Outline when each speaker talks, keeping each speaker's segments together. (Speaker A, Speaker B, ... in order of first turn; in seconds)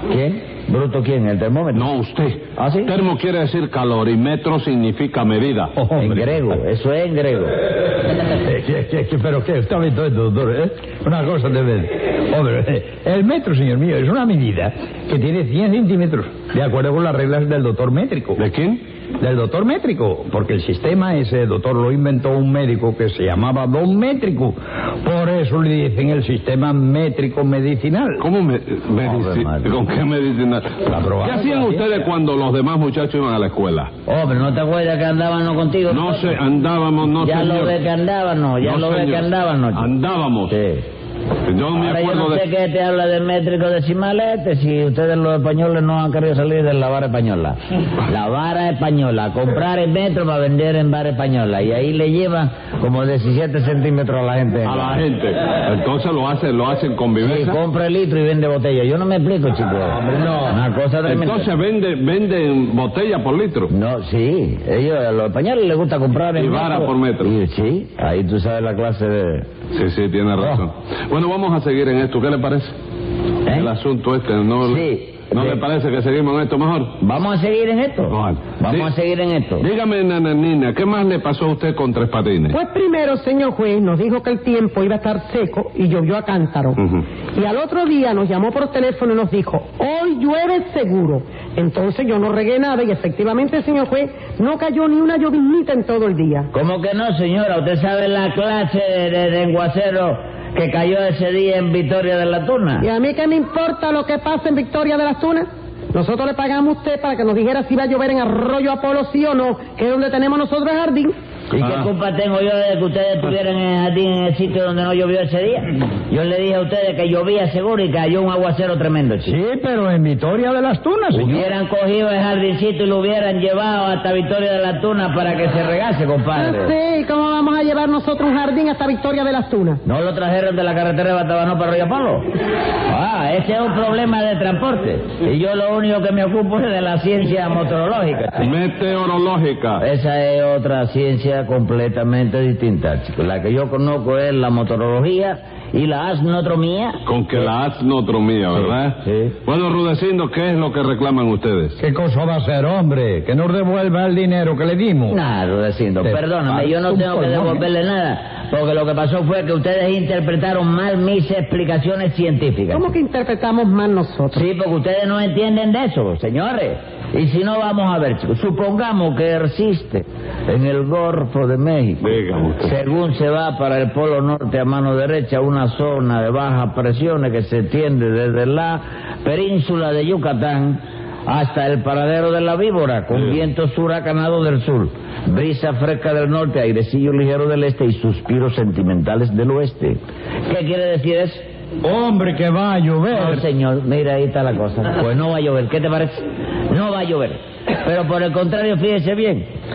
Speaker A: 0.1-1.9, 2.5-2.9, 6.0-7.5, 29.0-29.7, 34.1-36.4, 37.2-39.9, 40.5-40.9, 41.7-55.0, 57.2-61.5, 63.7-69.5, 73.5-73.7, 74.6-75.6, 77.0-79.7, 96.5-102.8, 111.5-119.4, 121.1-126.7, 129.8-132.2, 132.9-138.5, 139.8-147.0, 148.5-149.3, 155.1-162.9, 164.3-191.4, 193.1-199.5
Speaker B: 1.7-5.7, 18.4-18.8, 28.2-33.9, 35.9-37.8, 38.6-40.5, 41.5-42.5, 54.6-57.6, 61.0-63.7, 66.3-67.3, 69.7-72.7, 73.5-76.9, 78.1-78.9, 79.6-82.6, 111.6-111.9, 138.4-139.8, 147.1-151.8, 172.0-172.7
Speaker C: 5.8-6.4, 8.4-18.4, 19.2-28.2, 30.9-31.7, 119.2-121.5, 151.8-155.2, 156.0-157.6, 191.8-193.4
Speaker D: 82.5-86.8, 87.3-96.5, 102.8-111.1, 126.3-129.8, 162.7-164.4